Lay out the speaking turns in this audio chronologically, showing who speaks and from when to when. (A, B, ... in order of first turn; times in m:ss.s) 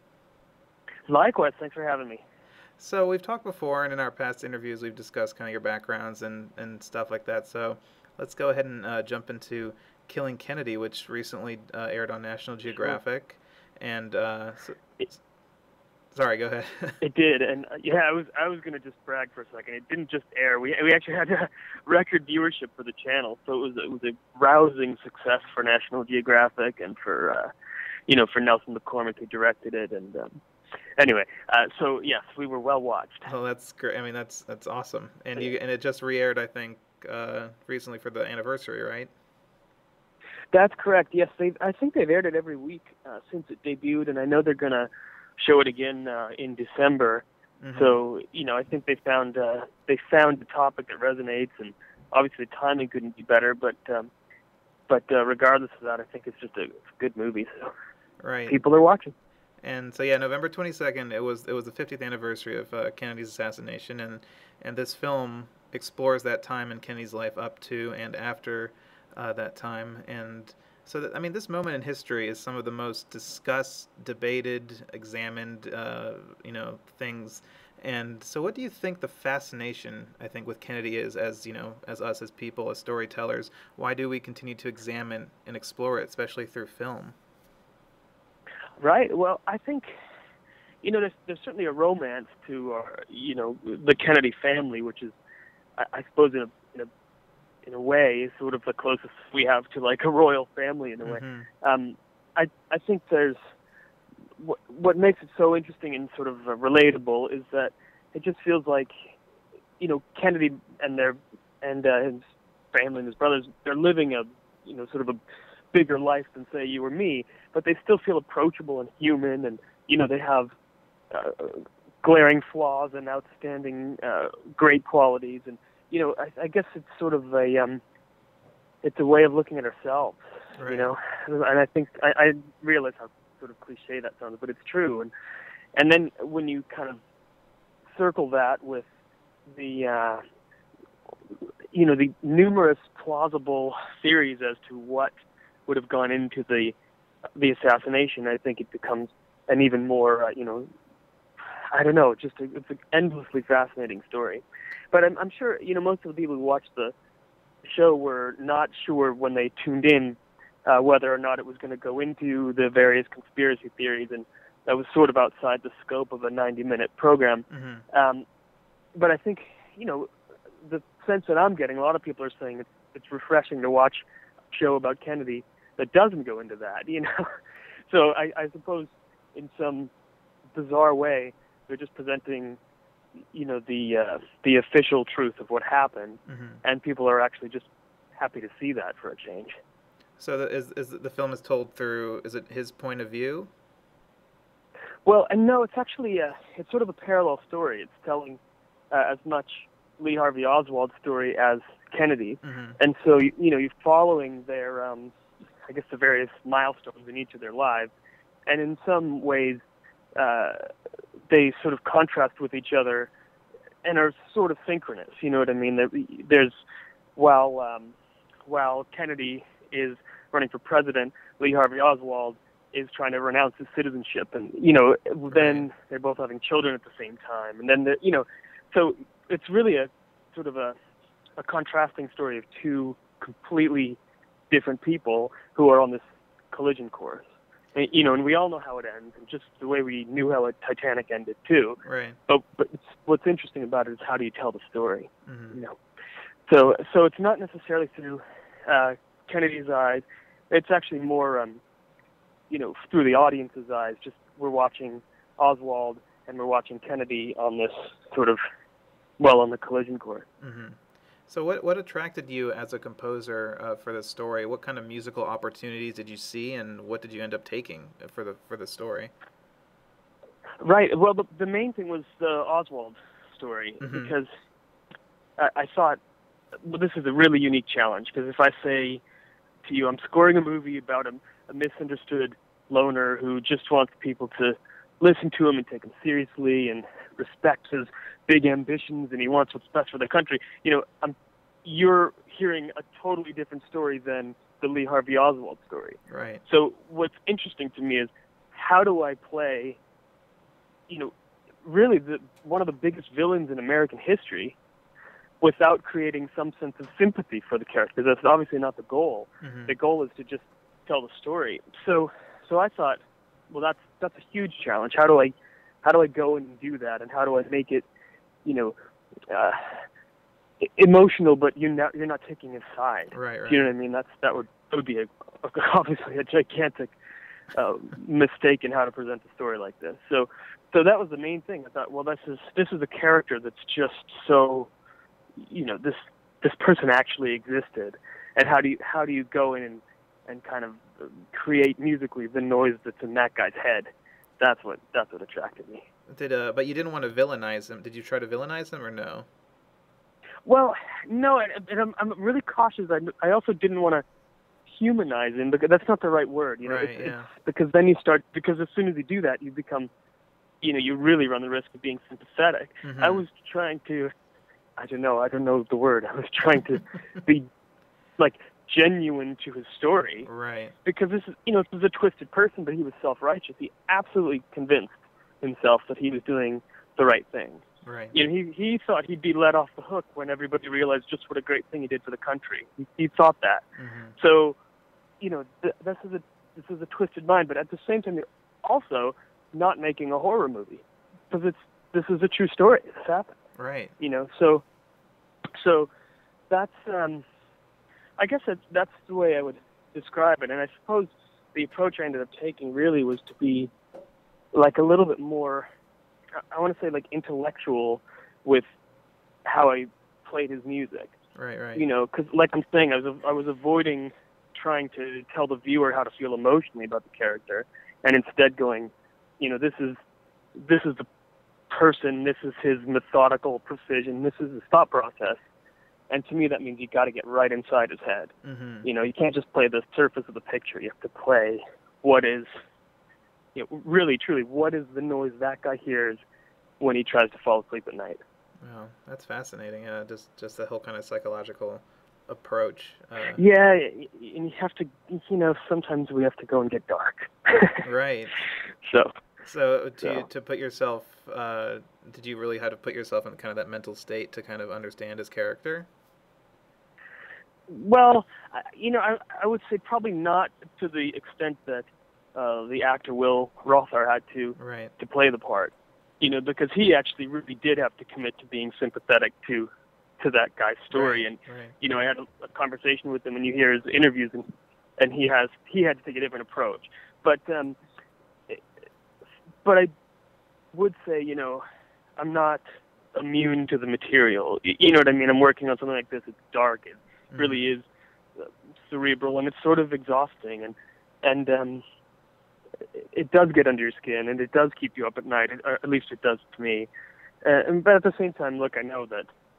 0:01.1-0:02.2 A
0:02.8-0:15.2 B
0:16.1-0:17.0 B
0:17.0-0:27.5 A
0:28.1-0:30.4 A
0:31.0-0:33.3 A
0:33.2-0:39.1 B
0:40.5-0:54.1 A
0:47.6-0:48.0 B
0:54.9-0:57.7 A
0:58.2-0:58.6 B
0:58.5-0:59.1 A
0:59.6-1:27.1 B
1:28.8-1:29.9 A
1:30.8-1:35.1 A
1:35.8-1:36.9 A
1:37.6-1:43.4 A
1:41.0-1:41.5 B
1:44.4-1:49.1 A
1:49.8-1:52.2 A
1:52.7-1:55.2 A
1:55.7-2:00.5 A
2:01.1-2:07.8 A
2:08.8-2:15.1 A
2:10.6-2:10.9 B
2:15.8-2:17.0 A
2:17.9-2:18.8 A
2:19.5-2:20.2 A
2:21.7-2:25.1 A
2:25.7-2:26.7 A
2:27.4-2:30.7 A
2:31.7-2:36.9 A
2:37.6-2:48.2 A
2:47.5-2:47.8 B
2:48.9-2:50.1 A
2:50.6-2:57.3 A
2:57.9-2:59.9 A
3:00.5-3:02.6 A
3:03.3-3:09.6 A
3:06.3-3:06.6 B
3:10.2-3:13.5 B
3:15.0-3:18.4 A
3:18.9-3:25.1 A
3:22.4-3:22.8 B
3:25.7-3:27.9 A
3:28.5-3:29.6 A
3:30.2-3:30.7 A
3:31.3-3:33.1 A
3:33.8-3:36.5 A
3:37.2-3:37.9 A
3:38.4-3:50.7 A
3:45.3-3:45.6 B
3:51.4-3:54.0 A
3:54.5-4:05.8 A
4:01.8-4:02.2 B
4:05.2-4:05.6 B
4:06.5-4:11.6 A
4:12.5-4:18.4 A
4:19.2-4:20.2 A
4:20.4-4:29.1 B
4:30.6-4:34.3 A
4:33.8-4:34.1 B
4:35.4-4:36.0 A
4:36.6-4:39.0 A
4:39.6-4:59.8 A
4:56.1-4:56.4 B
5:01.6-5:04.6 A
5:05.4-5:13.0 A
5:09.4-5:09.7 B
5:13.5-5:17.8 A
5:18.4-5:18.7 A
5:19.3-5:19.8 A
5:20.6-5:27.0 A
5:23.1-5:23.7 B
5:27.5-5:34.7 A
5:35.4-5:45.8 A
5:46.1-5:49.3 B
5:50.4-5:54.0 A
5:54.7-5:59.9 A
5:56.6-5:57.3 B
6:00.6-6:04.1 A
6:02.8-6:03.2 B
6:04.8-6:07.5 A
6:08.2-6:10.3 A
6:10.2-6:10.7 B
6:10.8-6:23.6 A
6:17.8-6:18.1 B
6:23.8-6:24.2 B
6:24.2-6:24.6 A
6:25.2-6:33.3 A
6:33.6-6:33.9 B
6:34.0-6:34.6 A
6:35.5-6:35.9 A
6:36.5-6:37.2 A
6:38.2-6:43.7 A
6:44.5-6:45.7 A
6:46.5-6:48.6 A
6:49.4-6:51.1 A
6:51.4-6:51.8 B
6:51.7-7:00.0 A
7:00.6-7:01.1 A
7:01.7-7:05.4 A
7:06.1-7:08.3 A
7:08.4-7:08.9 B
7:08.8-7:12.5 A
7:13.5-7:16.2 A
7:16.8-7:18.2 A
7:18.6-7:23.4 B
7:23.4-7:27.8 A
7:27.8-7:28.4 B
7:28.8-7:29.1 A
7:29.4-7:35.9 B
7:37.7-7:54.5 A
7:44.6-7:44.9 B
7:50.9-7:51.8 B
7:55.0-7:57.8 A
7:59.6-7:59.9 A
8:00.7-8:01.6 A
8:02.2-8:02.6 A
8:03.1-8:07.9 A
8:07.3-8:07.7 B
8:08.4-8:11.8 A
8:12.9-8:16.9 A
8:17.4-8:19.3 A